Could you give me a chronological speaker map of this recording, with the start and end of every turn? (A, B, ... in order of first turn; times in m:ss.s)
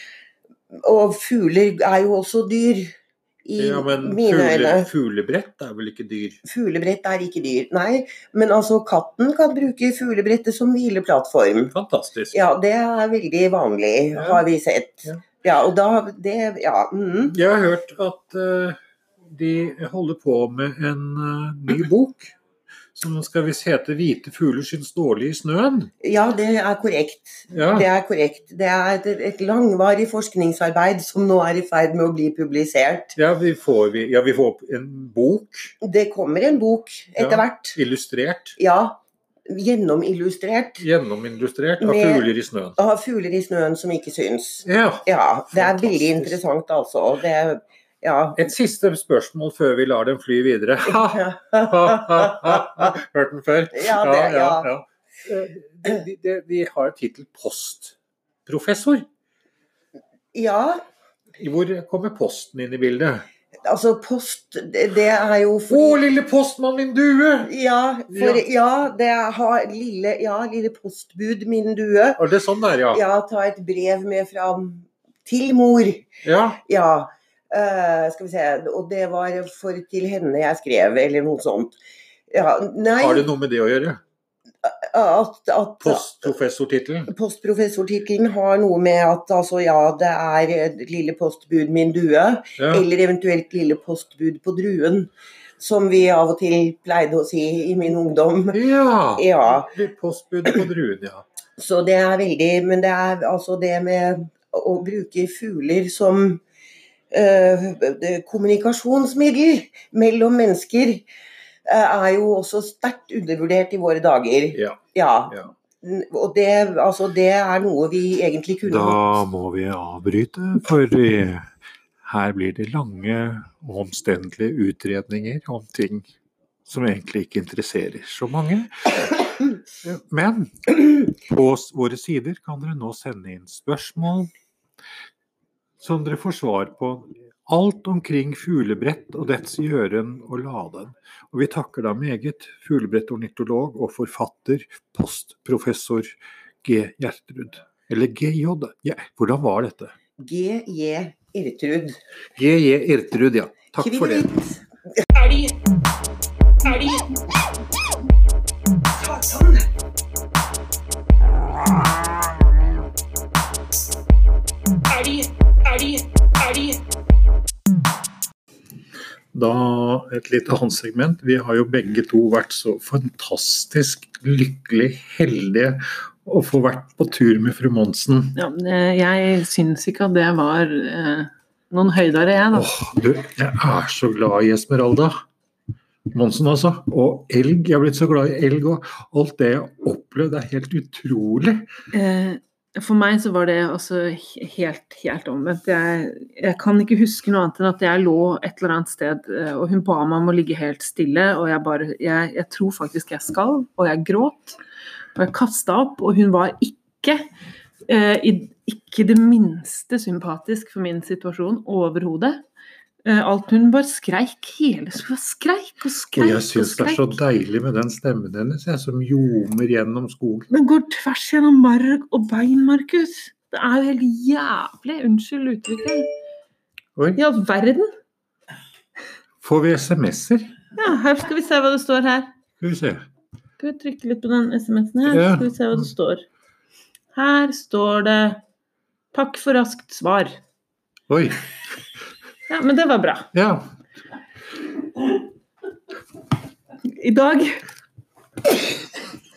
0:00.8-0:02.9 A
0:03.4-0:04.9 A
0:03.6-0:06.4 B
0:06.4-0:11.7 A
0:11.7-0:12.4 B
0:12.3-0:17.4 A
0:14.1-0:14.4 B
0:17.3-0:22.4 B
0:23.0-0:25.9 B
0:26.0-0:33.2 A
0:27.5-0:27.9 B
0:33.2-0:35.8 B
0:35.8-0:37.8 A
0:37.2-0:38.6 B
0:38.6-0:40.9 A
0:40.8-0:42.8 B
0:41.8-0:48.5 A
0:44.6-0:46.4 B
0:48.4-0:59.0 B
0:50.9-0:52.8 A
0:53.7-0:54.7 A
1:00.3-1:00.8 A
1:01.4-1:03.3 B
1:03.6-1:06.0 A
1:05.7-1:07.5 B
1:07.4-1:12.2 A
1:08.1-1:08.4 B
1:12.2-1:13.0 B
1:12.9-1:16.1 A
1:16.2-1:16.6 B
1:16.6-1:21.7 A
1:22.3-1:23.3 A
1:23.0-1:24.0 B
1:24.6-1:26.3 A
1:25.8-1:27.1 B
1:27.1-1:38.6 A
1:32.6-1:32.9 B
1:38.5-1:41.2 B
1:39.2-1:39.7 A
1:41.6-1:46.4 A
1:47.1-1:51.0 A
1:51.7-1:59.0 A
1:54.5-1:55.5 B
1:58.6-2:01.5 B
2:02.0-2:06.1 B
2:06.6-2:14.3 B
2:15.8-2:29.9 B
2:30.2-2:32.0 A
2:32.4-2:34.3 B
2:33.8-2:34.6 A
2:35.1-2:35.6 C
2:36.6-2:37.0 C
2:39.0-2:39.6 A
2:44.9-2:46.8 C
2:49.3-2:58.4 B
2:58.4-3:02.7 C
3:02.5-3:05.2 B
3:06.1-3:11.7 B
3:11.9-3:24.6 C
3:25.2-3:27.2 C
3:27.9-3:32.4 C
3:33.0-3:37.0 C
3:36.1-3:40.5 B
3:40.5-3:46.1 C
3:47.2-3:47.9 C
3:49.4-3:50.5 B
3:50.8-3:52.3 C
3:52.6-3:53.0 B
3:53.6-3:56.2 C
3:55.1-3:55.9 B
3:57.2-3:58.4 C
3:59.1-4:00.4 C
4:01.1-4:01.5 B
4:02.5-4:03.3 C
4:03.3-4:03.7 B
4:06.9-4:07.6 C